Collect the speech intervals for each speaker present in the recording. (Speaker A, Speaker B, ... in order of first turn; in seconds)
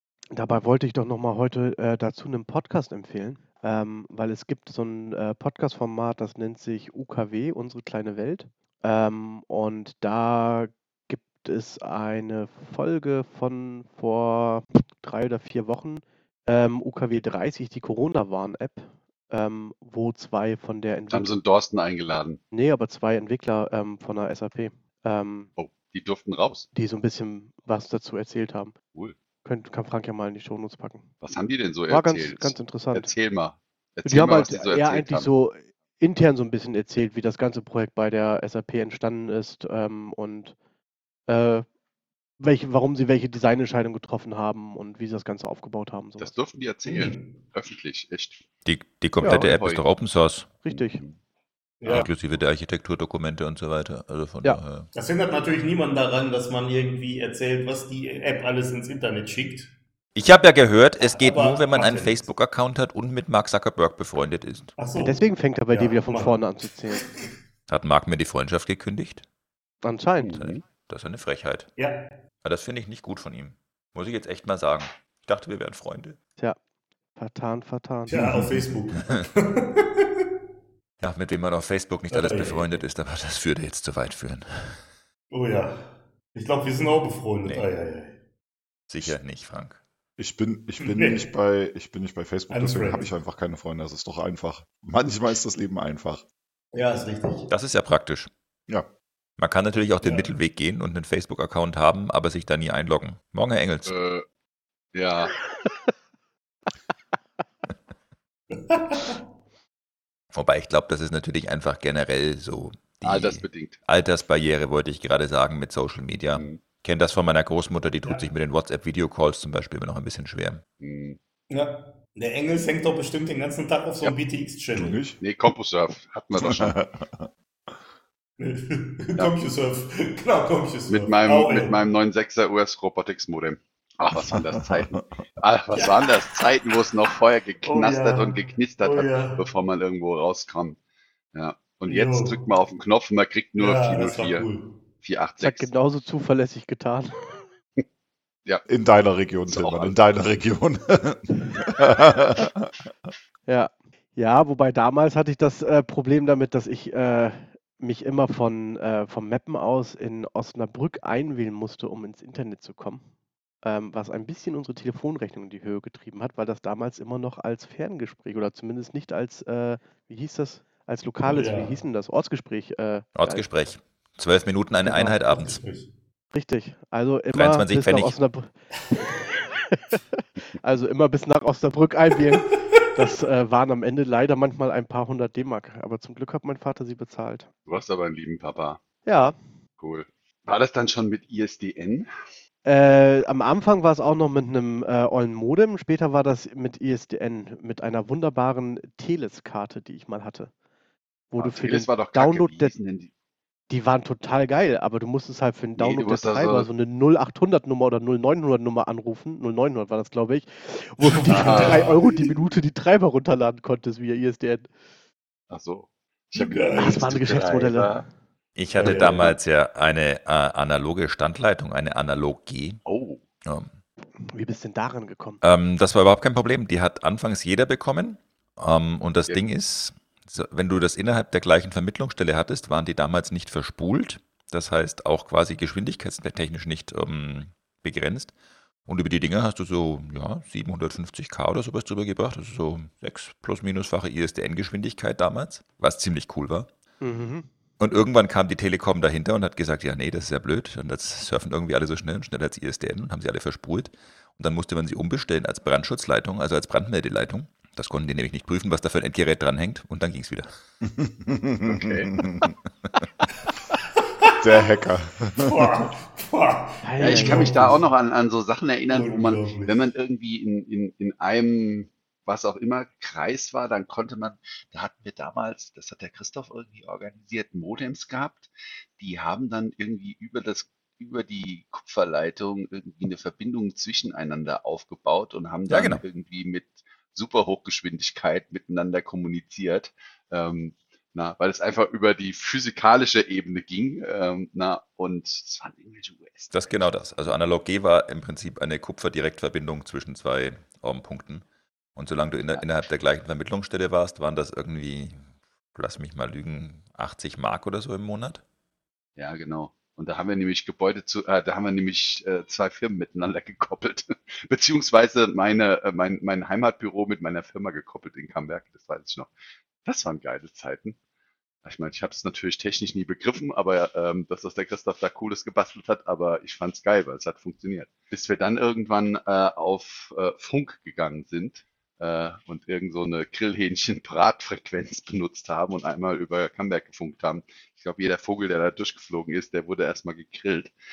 Speaker A: 0.3-21.3, 22.5-25.5, 26.8-28.7, 29.4-31.1, 31.9-33.1, 34.0-40.5, 41.3-41.6, 42.4-46.3, 49.2-49.5, 50.6-51.0, 65.0-67.1, 69.8-70.4, 77.2-78.2, 145.4-147.3, 153.5-163.0, 163.6-173.4, 174.8-175.2, 176.3-180.0, 180.6-187.5, 189.1-189.3, 192.7-200.5, 201.3-202.7, 203.7-214.7, 216.8-217.9, 224.3-225.4, 247.0-247.5, 266.8-267.7
Speaker B: 21.1-22.4, 25.6-26.7, 31.2-35.3, 46.2-48.4, 49.2-49.8, 50.7-51.2, 70.2-70.6, 103.9-104.2, 104.9-105.3, 113.0-113.8, 116.3-116.6, 120.8-121.2, 125.2-126.8, 130.9-140.8, 141.3-144.4, 145.0-145.7, 149.5-150.0, 187.7-188.8, 189.8-192.1, 201.4-203.1, 205.8-206.7, 211.3-212.3, 215.5-218.0, 218.8-219.3, 222.8-223.2, 261.6-262.1, 267.0-296.6, 309.2-319.3, 319.8-321.0, 321.6-340.7
Speaker C: 46.8-47.4, 51.8-52.1, 54.9-59.7, 61.1-62.2, 64.8-67.3, 71.8-72.1, 78.1-80.1, 82.1-82.8, 85.3-88.1, 90.8-91.3, 92.5-93.1, 96.7-97.5, 100.0-100.3, 108.5-109.2, 121.5-125.0, 128.4-131.8, 135.7-136.1, 137.6-139.4, 141.9-142.4, 143.6-144.8, 171.3-171.8, 175.0-175.9, 211.2-212.1, 216.3-217.1, 218.8-219.3, 263.9-264.5, 265.4-267.8, 268.9-269.8
Speaker D: 48.6-50.5, 51.9-54.9, 60.2-64.7, 67.7-69.2, 70.3-71.7, 72.4-76.2, 81.0-84.8, 88.9-89.8, 97.5-98.3, 99.4-103.9, 110.3-120.6, 173.2-175.6, 177.3-178.2, 218.6-222.8, 223.4-223.7, 225.4-238.3, 238.8-246.7, 247.8-260.5, 285.7-286.0, 296.5-301.4, 301.9-308.4
Speaker E: 90.2-96.2, 124.8-125.2, 126.3-127.3, 134.5-135.0, 148.7-152.7, 260.8-262.5, 264.4-265.9